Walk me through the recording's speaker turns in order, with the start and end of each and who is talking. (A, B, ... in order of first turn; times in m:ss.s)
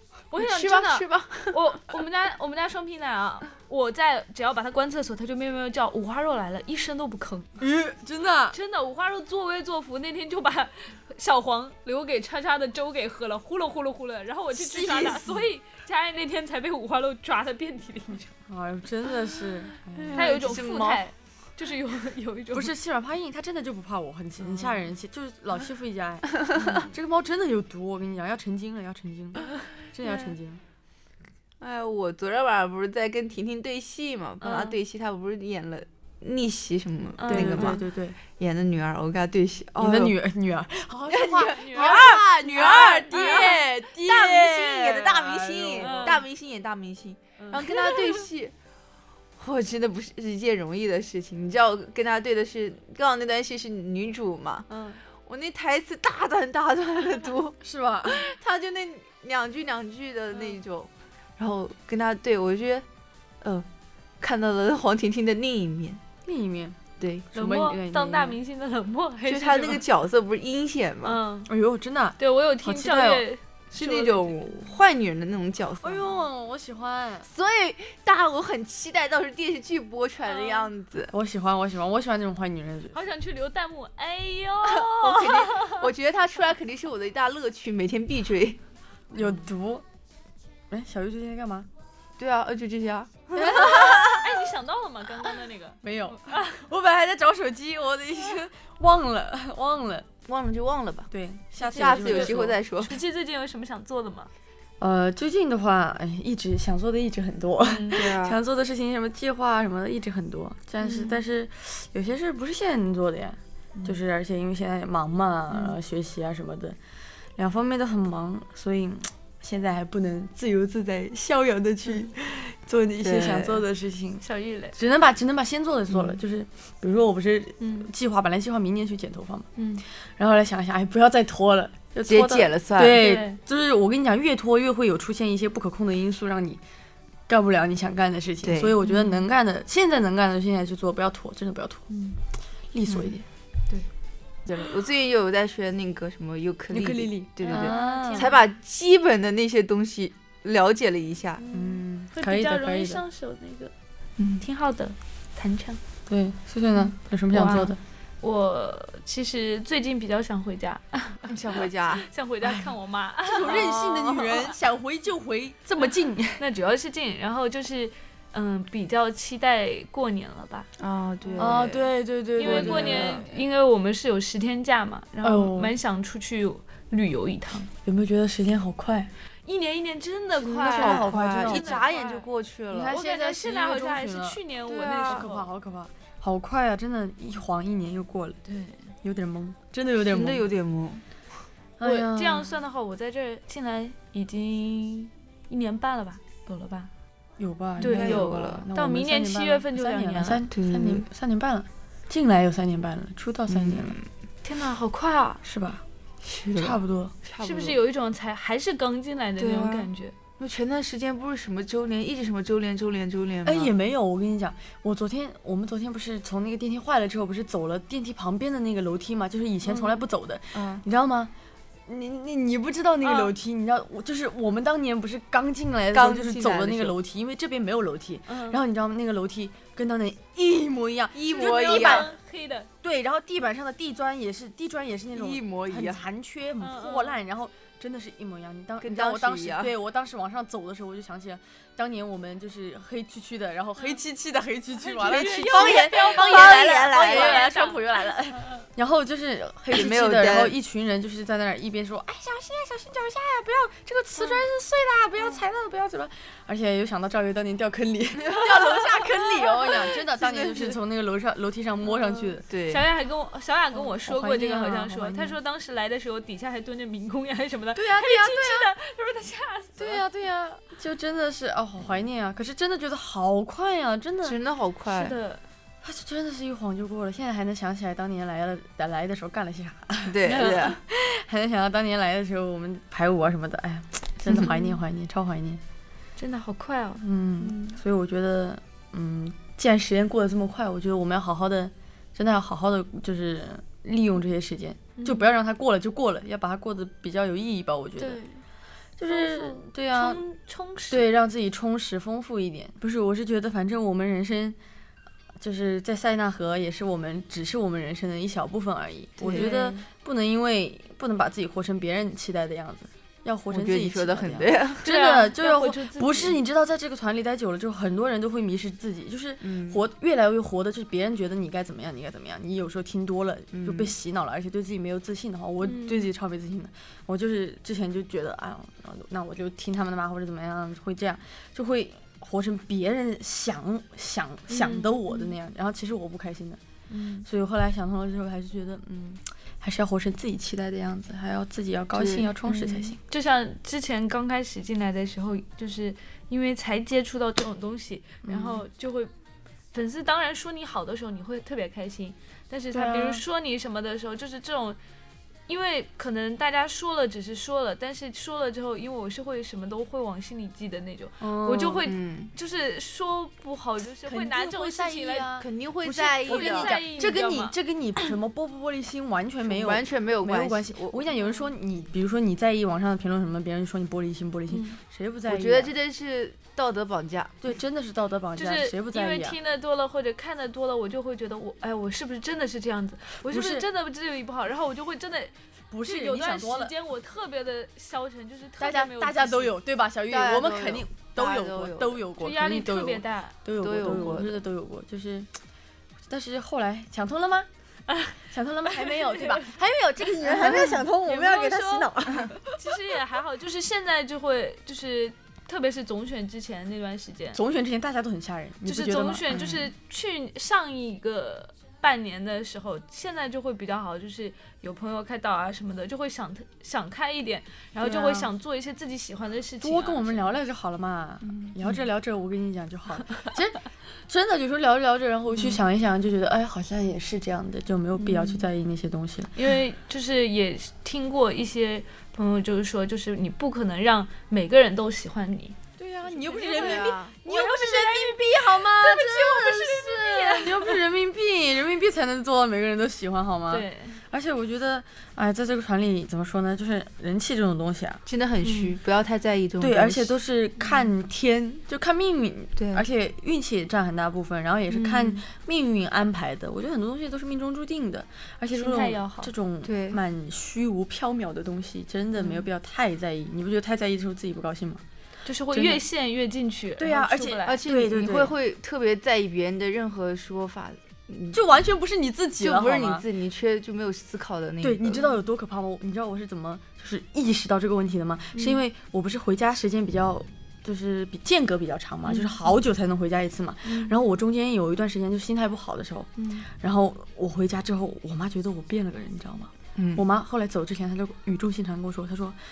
0:00.3-0:07.6 A
0:00.4-0:01.6 B
0:07.6-0:08.6 C
0:08.5-0:18.3 A
0:14.5-0:15.5 C
0:18.5-0:20.6 C
0:19.9-0:21.0 B
0:20.1-0:22.7 A
0:22.5-0:30.6 C
0:26.4-0:26.9 B
0:30.0-0:30.3 A
0:31.6-0:37.8 B
0:34.4-0:34.8 A
0:37.2-0:37.8 A
0:37.3-0:38.2 C
0:38.4-0:40.2 B
0:39.8-0:46.2 C
0:41.1-0:48.5 B
0:41.5-0:43.5 A
0:45.8-0:46.2 A
0:47.4-0:48.2 A
0:49.4-0:54.7 B
0:54.7-0:55.0 A
0:55.2-1:02.8 B
0:57.6-0:58.2 C
1:00.3-1:00.6 A
1:04.2-1:06.0 B
1:06.2-1:06.8 C
1:07.0-1:07.3 B
1:07.3-1:08.4 C
1:07.3-1:09.8 A
1:09.3-1:11.2 B
1:11.0-1:11.5 A
1:11.4-1:13.2 C
1:12.2-1:14.7 A
1:13.7-1:16.2 B
1:15.8-1:17.3 C
1:17.2-1:21.1 B
1:20.2-1:20.7 A
1:21.1-1:23.0 C
1:22.9-1:25.9 A
1:24.6-1:28.6 B
1:29.1-1:29.8 C
1:30.7-1:31.7 C
1:32.2-1:34.3 B
1:33.3-1:34.0 C
1:33.4-1:36.6 A
1:35.8-1:40.1 C
1:40.3-1:41.1 B
1:41.1-1:42.6 C
1:41.6-1:43.0 B
1:41.6-1:44.3 A
1:44.8-1:56.8 C
1:47.6-1:48.0 A
1:47.9-1:48.4 B
1:50.8-1:51.2 A
1:57.4-2:09.5 C
2:03.0-2:03.6 B
2:04.2-2:04.8 A
2:05.9-2:06.2 B
2:07.6-2:07.9 A
2:09.6-2:09.8 A
2:10.2-2:16.6 C
2:12.1-2:13.1 B
2:12.9-2:13.4 A
2:17.3-2:21.9 C
2:18.4-2:18.8 B
2:18.8-2:19.3 A
2:21.9-2:22.2 A
2:22.7-2:23.2 C
2:22.9-2:23.1 B
2:24.5-2:31.4 B
2:26.7-2:28.3 C
2:27.4-2:28.4 A
2:31.4-2:33.7 A
2:31.5-2:33.0 C
2:34.2-2:34.4 B
2:34.4-2:35.8 A
2:36.1-2:37.8 C
2:36.7-2:41.3 A
2:41.2-2:42.1 B
2:42.0-2:43.7 A
2:42.4-2:42.7 C
2:43.2-2:46.4 C
2:43.4-2:44.5 B
2:46.4-2:50.7 A
2:50.8-2:53.3 B
2:51.2-2:51.7 A
2:51.4-2:53.3 C
2:52.4-2:57.7 A
2:55.2-2:55.8 C
2:57.8-2:59.1 C
2:59.4-3:02.2 A
3:00.4-3:03.0 B
3:00.6-3:01.8 C
3:02.7-3:04.4 C
3:02.9-3:05.5 A
3:04.7-3:05.3 B
3:05.0-3:08.4 C
3:08.4-3:08.8 A
3:09.0-3:10.5 C
3:10.0-3:11.0 B
3:11.8-3:12.6 C
3:11.8-3:16.9 A
3:17.4-3:24.0 C
3:17.8-3:20.4 A
3:17.8-3:18.7 B
3:20.5-3:21.0 B
3:23.5-3:24.0 B
3:24.4-3:25.4 A
3:25.4-3:25.8 C
3:26.2-3:27.8 B
3:26.6-3:27.1 C
3:27.4-3:30.1 A
3:29.4-3:33.7 B
3:33.4-3:41.3 C
3:40.5-3:40.8 B
3:41.9-3:52.1 C
3:43.0-3:43.3 A
3:45.9-3:47.0 B
3:48.3-3:48.6 A
3:51.1-3:52.1 B
3:51.3-3:52.7 A
3:52.8-4:22.4 C
3:55.1-3:56.0 B
3:56.6-3:57.1 A
3:58.8-3:59.7 B
4:04.8-4:08.6 A
4:05.0-4:07.5 B
4:09.7-4:10.6 B
4:18.3-4:20.8 B
4:21.8-4:30.0 A
4:22.5-4:22.8 B
4:23.7-4:25.4 C
4:27.7-4:28.7 C
4:29.8-4:34.4 C
4:34.2-4:35.2 B
4:34.9-4:35.4 A
4:35.8-4:45.6 C
4:40.0-4:40.8 B
4:40.2-4:40.8 A
4:44.3-4:44.5 B
4:44.3-4:44.8 A
4:46.2-4:47.8 A
4:47.0-4:58.2 C
4:55.0-4:55.3 A
4:58.0-4:58.4 A
4:59.0-5:00.2 C
4:59.1-5:01.1 A
5:00.9-5:04.6 C
5:05.4-5:36.6 C
5:09.2-5:09.5 B
5:09.3-5:09.8 A
5:13.5-5:14.8 B
5:14.8-5:16.4 A
5:19.4-5:19.8 B
5:23.5-5:23.9 B
5:25.6-5:26.1 A
5:34.5-5:35.3 A
5:36.9-5:37.2 A
5:37.2-5:43.0 C
5:41.9-5:42.8 B
5:42.5-5:49.1 A
5:48.2-5:48.6 C
5:49.7-5:54.8 A
5:52.7-5:53.2 C
5:55.5-6:05.3 A
6:01.2-6:01.8 C
6:01.8-6:02.3 B
6:04.0-6:15.7 C
6:05.4-6:06.8 B
6:06.3-6:07.5 A
6:09.4-6:11.1 B
6:11.1-6:11.5 A
6:14.5-6:14.8 A
6:15.3-6:17.4 B
6:17.4-6:19.4 C
6:18.4-6:29.5 A
6:23.2-6:23.6 C
6:25.7-6:26.7 C
6:28.6-6:35.3 C
6:30.1-6:32.0 B
6:32.2-6:34.1 A
6:33.6-6:34.4 B
6:36.1-6:37.5 C
6:37.9-6:38.1 A
6:38.2-6:42.7 C
6:38.8-6:39.5 A
6:40.2-6:47.4 A
6:40.3-6:40.8 B
6:47.3-6:49.5 C
6:48.6-7:00.3 A
6:49.3-6:49.6 B
6:57.8-6:58.3 C
6:59.6-7:09.3 C
7:01.2-7:01.5 B
7:08.0-7:08.4 A
7:09.3-7:20.8 A
7:15.8-7:28.0 C
7:16.5-7:17.2 B
7:23.5-7:24.0 A
7:28.0-7:30.2 B
7:28.4-7:28.7 A
7:29.6-7:44.8 C
7:32.6-7:32.8 B
7:34.8-7:35.2 B
7:38.5-7:39.3 A
7:39.6-7:40.0 B
7:45.2-7:47.6 A
7:45.5-7:45.8 C
7:46.8-7:48.3 C
7:47.4-7:51.4 B
7:51.3-7:53.1 C
7:52.4-7:55.1 B
7:54.6-8:12.4 C
8:09.8-8:10.0 B